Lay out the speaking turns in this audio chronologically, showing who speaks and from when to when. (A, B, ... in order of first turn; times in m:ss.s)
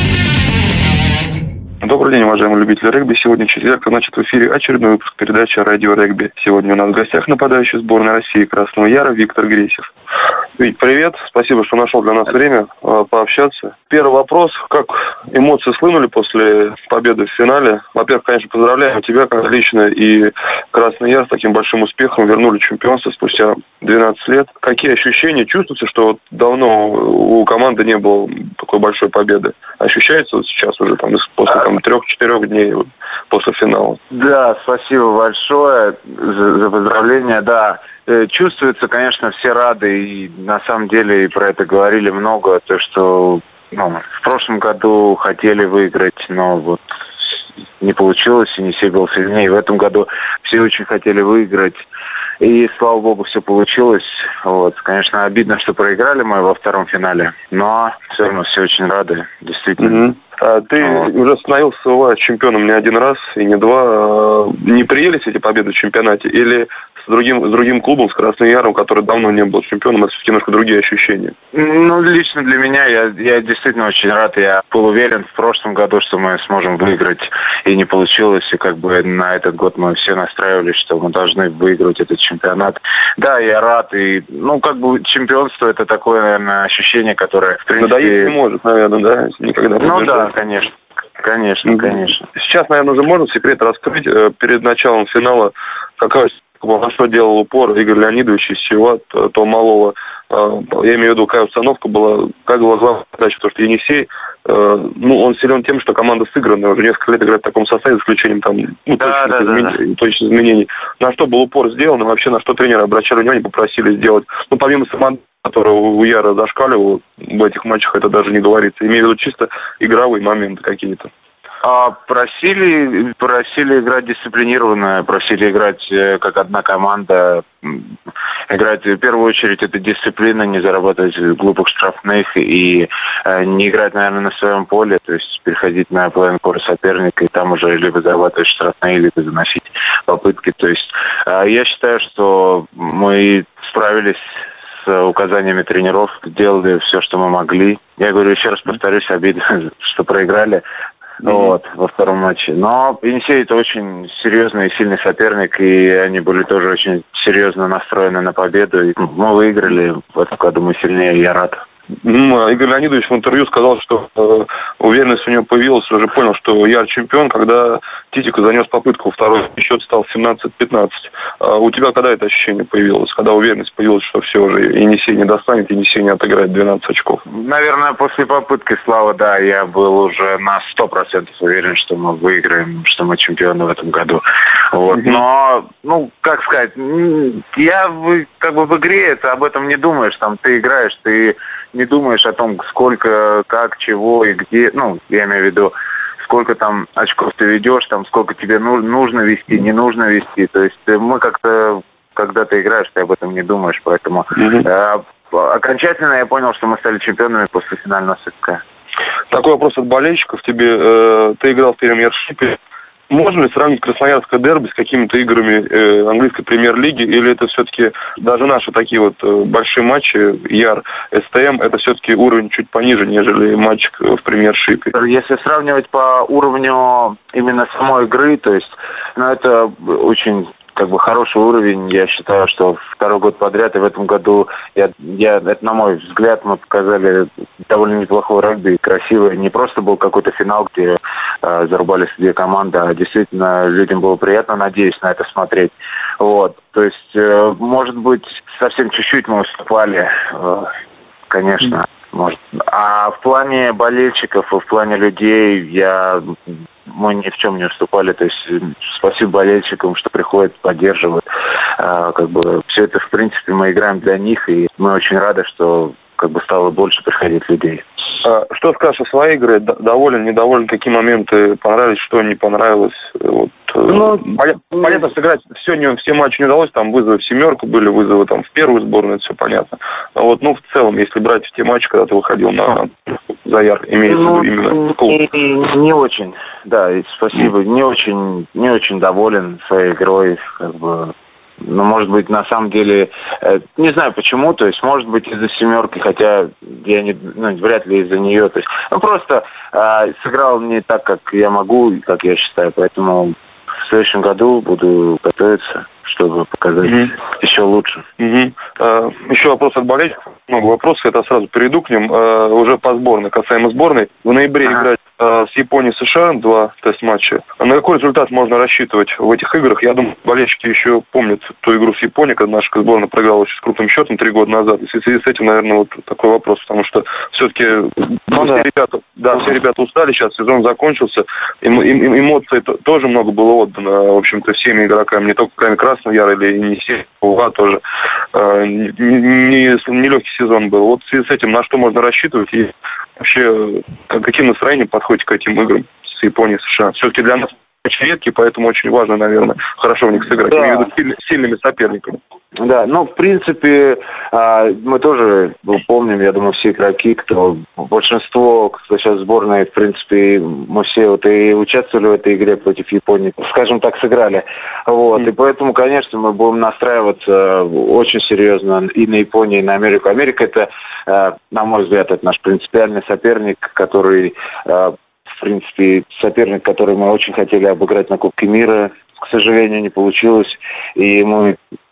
0:01.8-0:09.9 A
0:10.6-0:34.0 A
0:34.1-0:46.8 B
0:47.8-0:51.8 B
0:52.4-1:00.1 B
0:59.8-1:11.4 A
1:00.8-1:01.1 B
1:11.5-1:28.4 B
1:27.7-1:30.3 A
1:29.8-1:32.3 B
1:31.7-2:01.1 A
1:49.0-1:49.8 B
2:01.6-2:07.9 B
2:08.5-2:24.2 B
2:24.8-2:30.6 B
2:31.2-2:31.6 A
2:31.2-2:41.6 B
2:42.0-2:57.2 A
2:57.3-3:28.6 B
3:04.9-3:05.2 A
3:24.4-3:24.6 A
3:29.3-3:32.6 A
3:33.1-3:44.9 A
3:44.9-4:10.7 B
4:11.3-4:16.3 B
4:16.9-4:21.2 B
4:21.8-4:27.8 B
4:28.2-4:42.9 A
4:33.9-4:34.2 B
4:43.4-4:45.2 A
4:44.1-4:51.1 B
4:51.6-5:08.0 B
5:06.8-5:07.2 A
5:08.2-5:37.8 A
5:28.3-5:28.6 B
5:38.3-5:52.2 A
5:50.5-5:50.9 B
5:52.6-6:21.6 B